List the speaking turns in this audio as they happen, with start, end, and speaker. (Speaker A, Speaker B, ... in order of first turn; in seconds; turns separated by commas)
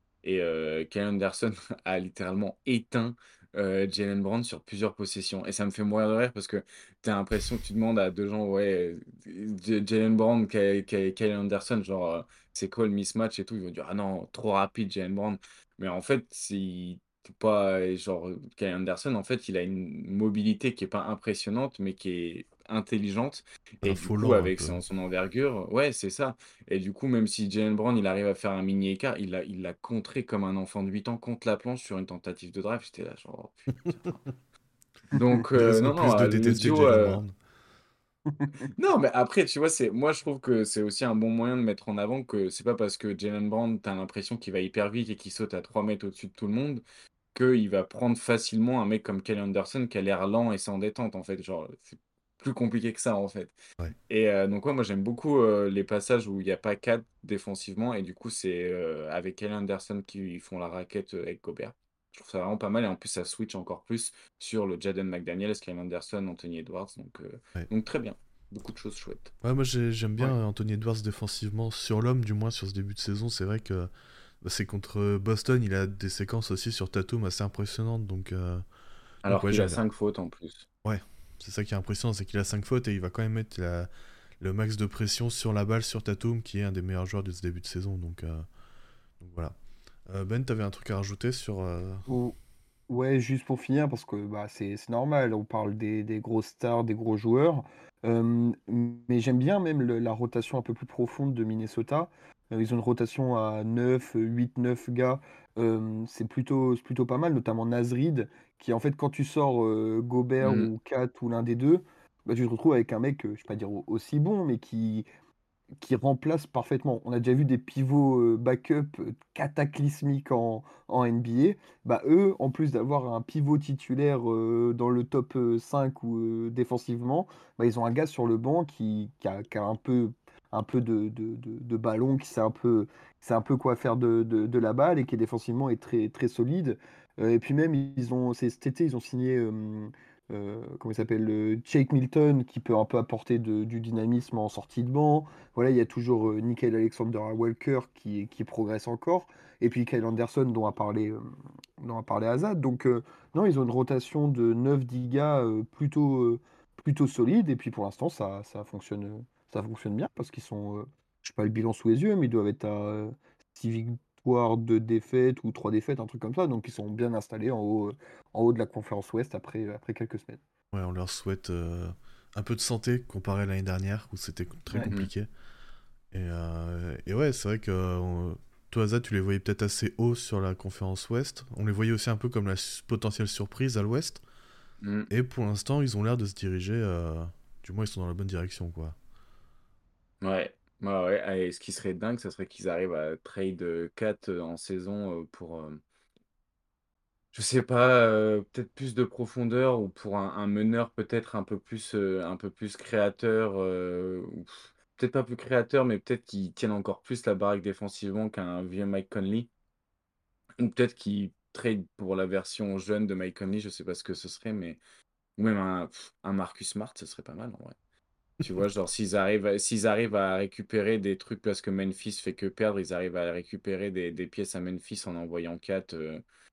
Speaker A: 0.2-34.2, Speaker B: 23.8-24.8, Speaker A: 35.1-37.2, Speaker B: 35.5-37.4, Speaker A: 38.7-46.8, Speaker A: 47.3-53.5, Speaker A: 54.1-69.3, Speaker B: 69.4-73.9, Speaker B: 74.4-78.6, Speaker B: 79.2-79.8, Speaker A: 79.2-80.7, Speaker B: 80.8-83.9, Speaker B: 84.4-88.4, Speaker B: 89.2-89.5, Speaker B: 90.1-92.0, Speaker C: 92.1-92.3, Speaker C: 92.9-115.0, Speaker A: 110.4-110.7, Speaker C: 115.8-151.2, Speaker C: 151.8-170.4, Speaker B: 170.7-175.3, Speaker A: 174.8-175.1, Speaker B: 176.1-184.2, Speaker A: 184.8-185.1, Speaker B: 185.1-188.9, Speaker A: 190.2-195.8, Speaker A: 197.3-209.5, Speaker A: 210.6-214.8, Speaker A: 215.4-217.7, Speaker A: 218.4-226.2